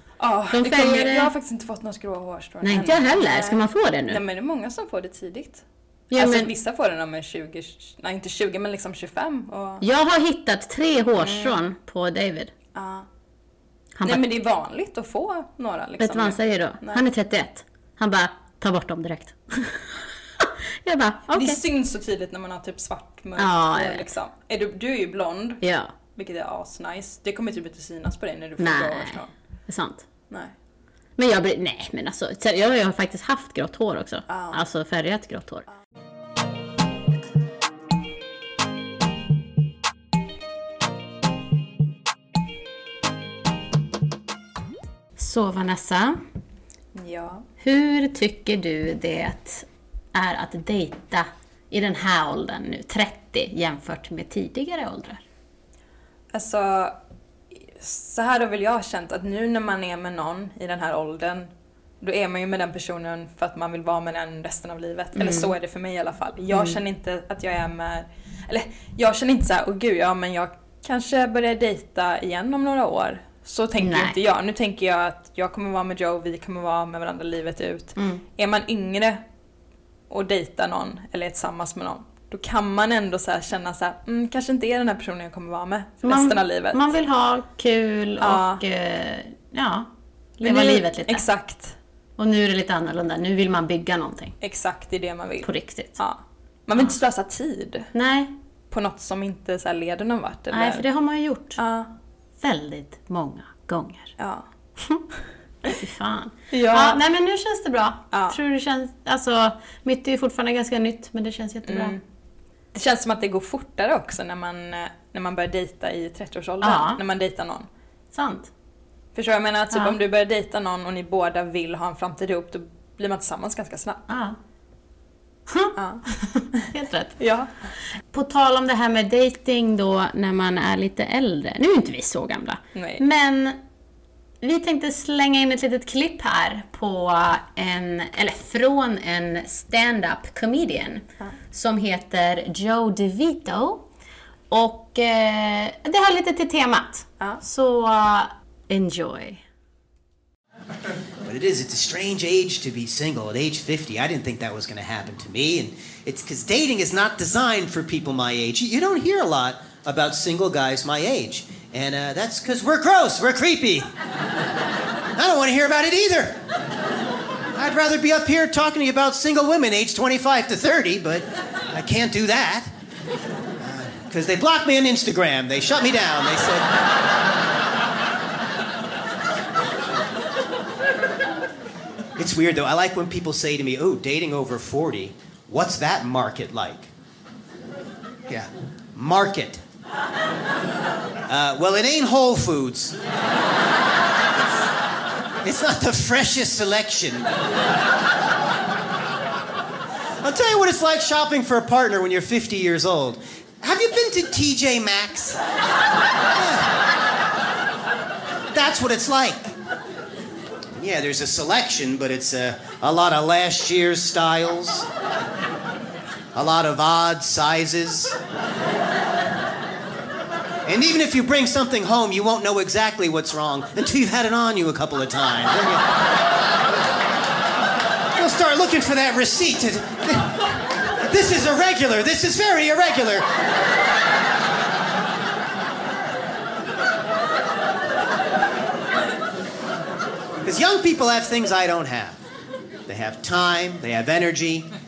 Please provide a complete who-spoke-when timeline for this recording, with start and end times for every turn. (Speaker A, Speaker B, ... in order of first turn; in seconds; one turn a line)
Speaker A: 0.2-5.6
Speaker B: 0.5-1.3
Speaker B: 2.6-4.2
Speaker B: 6.1-6.5
Speaker A: 6.2-9.8
Speaker B: 9.8-12.5
Speaker A: 11.2-11.6
Speaker A: 12.7-13.1
Speaker B: 14.0-14.3
Speaker A: 14.0-17.0
Speaker B: 16.0-21.6
Speaker A: 21.3-25.6
Speaker B: 23.4-24.1
Speaker B: 25.6-25.9
Speaker A: 26.1-29.3
Speaker B: 28.6-30.1
Speaker B: 31.2-35.7
Speaker A: 34.3-34.6
Speaker B: 45.1-46.2
Speaker A: 46.9-47.5
Speaker B: 47.6-55.2
Speaker A: 56.3-56.9
Speaker A: 57.5-79.2
Speaker B: 65.1-65.5
Speaker B: 66.5-66.8
Speaker B: 73.8-74.2
Speaker B: 78.0-78.2
Speaker A: 80.1-86.8
Speaker B: 86.0-91.2
Speaker A: 88.2-88.6
Speaker A: 90.4-91.8
Speaker B: 92.2-94.3
Speaker A: 94.4-97.9
Speaker B: 95.4-96.0
Speaker B: 97.9-98.3
Speaker A: 98.7-100.8
Speaker B: 100.5-101.6
Speaker A: 101.6-101.9
Speaker B: 102.4-104.2
Speaker A: 104.2-104.5
Speaker B: 104.8-105.0
Speaker B: 105.6-112.0
Speaker A: 106.5-107.0
Speaker A: 108.1-108.4
Speaker A: 111.6-112.0
Speaker A: 112.7-117.7
Speaker B: 116.6-117.0
Speaker B: 118.1-118.5
Speaker A: 119.1-124.1
Speaker B: 124.1-124.4
Speaker B: 125.5-127.2
Speaker A: 125.8-127.5
Speaker B: 128.1-133.6
Speaker A: 132.7-133.0
Speaker B: 134.4-143.8
Speaker B: 144.5-149.4
Speaker C: 151.2-163.9
Speaker C: 165.2-166.4
Speaker C: 167.6-172.7
Speaker C: 173.6-176.7
Speaker C: 182.2-186.9
Speaker C: 188.3-189.6
Speaker C: 191.3-193.0
Speaker C: 195.4-197.3
Speaker C: 200.2-205.4
Speaker C: 206.3-206.7
Speaker C: 208.5-209.5
Speaker C: 210.8-214.9
Speaker C: 216.3-218.2
Speaker C: 220.6-225.9
Speaker C: 228.2-233.2
Speaker C: 240.4-242.2
Speaker C: 242.9-244.7